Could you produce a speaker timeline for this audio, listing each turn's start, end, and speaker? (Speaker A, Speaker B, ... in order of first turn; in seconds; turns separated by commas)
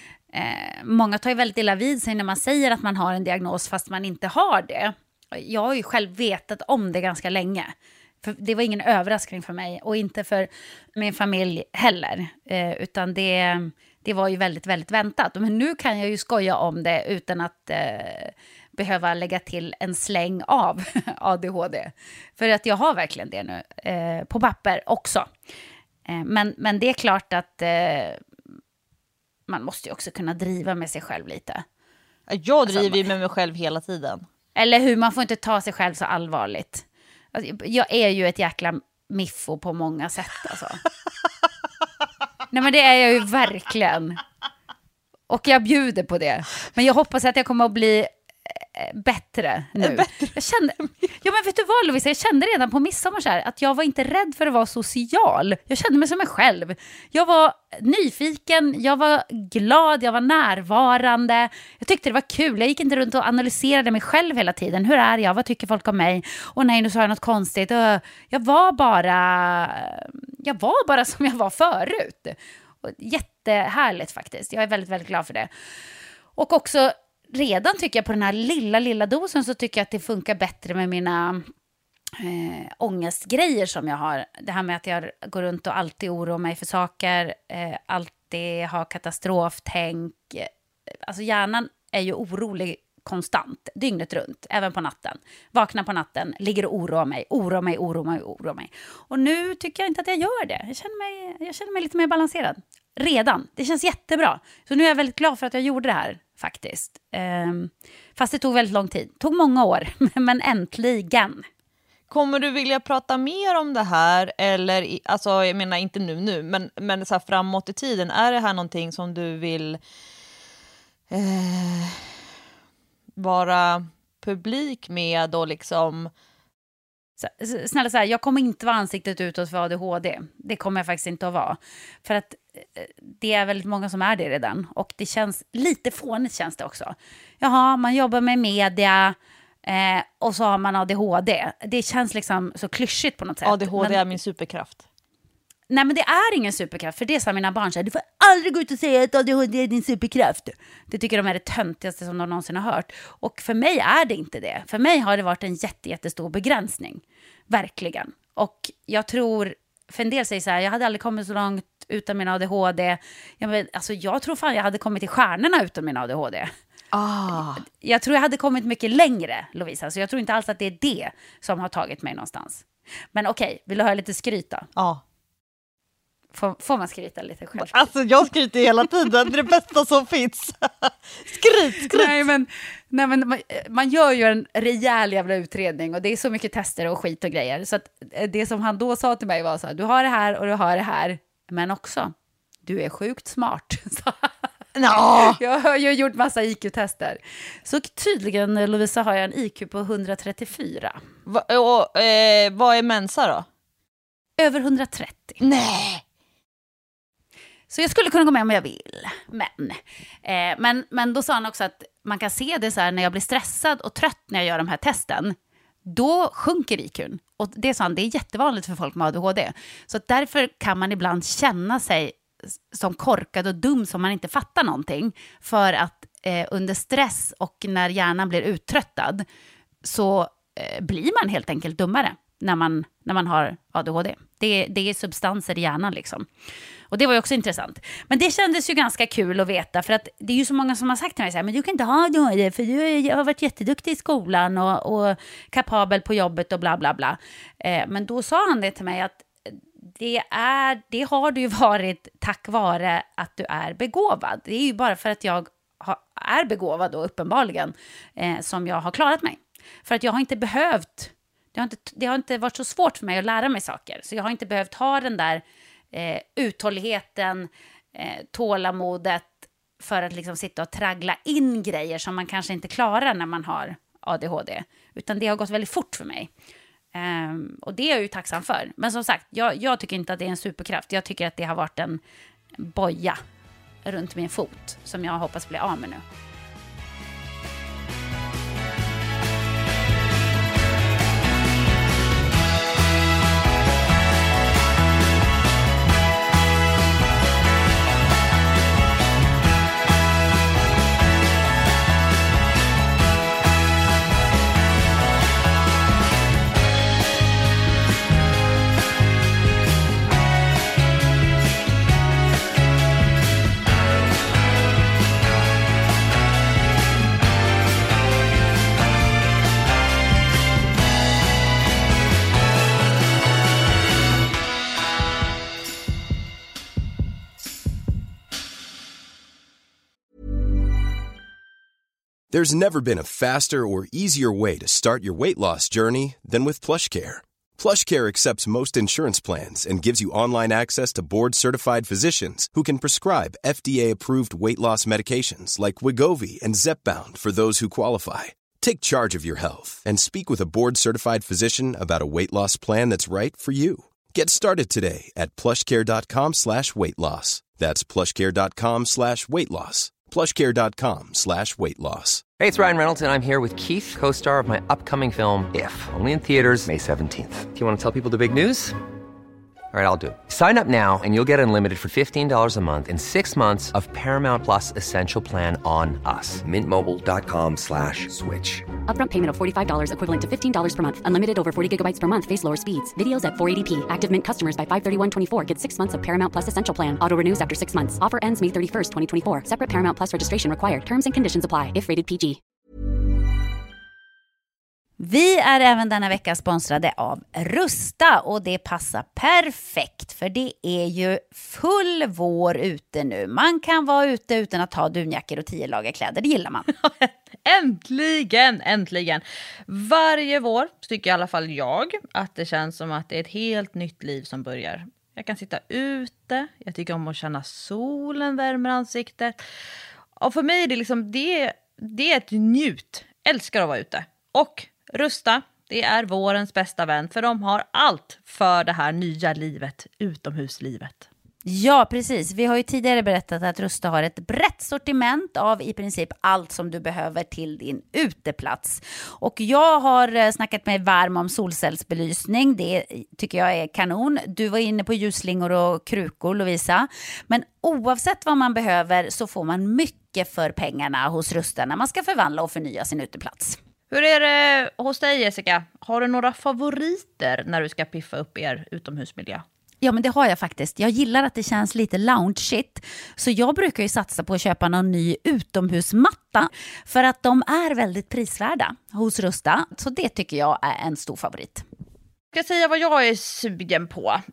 Speaker A: 0.3-25.3, Speaker A: 26.1-28.2, Speaker A: 29.5-31.6, Speaker B: 32.3-34.3, Speaker A: 32.7-33.1, Speaker A: 34.6-40.8, Speaker A: 42.5-44.2, Speaker A: 45.3-75.5, Speaker B: 49.8-50.4, Speaker A: 76.4-81.5, Speaker A: 82.2-90.5, Speaker A: 91.0-111.5, Speaker B: 112.1-119.8, Speaker B: 121.1-122.1, Speaker B: 123.2-126.1, Speaker A: 127.2-144.2, Speaker B: 143.4-144.8, Speaker A: 145.7-166.5, Speaker B: 166.9-167.6, Speaker A: 167.7-174.7, Speaker B: 174.8-175.0, Speaker A: 176.3-177.9, Speaker B: 177.6-182.2, Speaker A: 181.8-192.1, Speaker A: 192.7-194.3, Speaker B: 194.8-195.4, Speaker A: 195.2-201.0, Speaker B: 201.3-203.5, Speaker A: 204.4-205.4, Speaker B: 205.4-206.0, Speaker A: 207.7-222.2, Speaker A: 222.7-229.3, Speaker A: 229.8-236.3, Speaker A: 236.9-276.3, Speaker A: 276.9-282.0, Speaker A: 282.6-283.2, Speaker A: 283.9-286.0, Speaker C: 332.3-362.2, Speaker D: 362.4-368.8, Speaker D: 369.7-378.7, Speaker E: 378.9-392.4, Speaker A: 395.0-406.7, Speaker B: 406.9-419.4, Speaker B: 420.2-431.1, Speaker A: 431.4-453.6, Speaker B: 453.9-459.4, Speaker A: 459.8-471.7, Speaker B: 472.3-474.2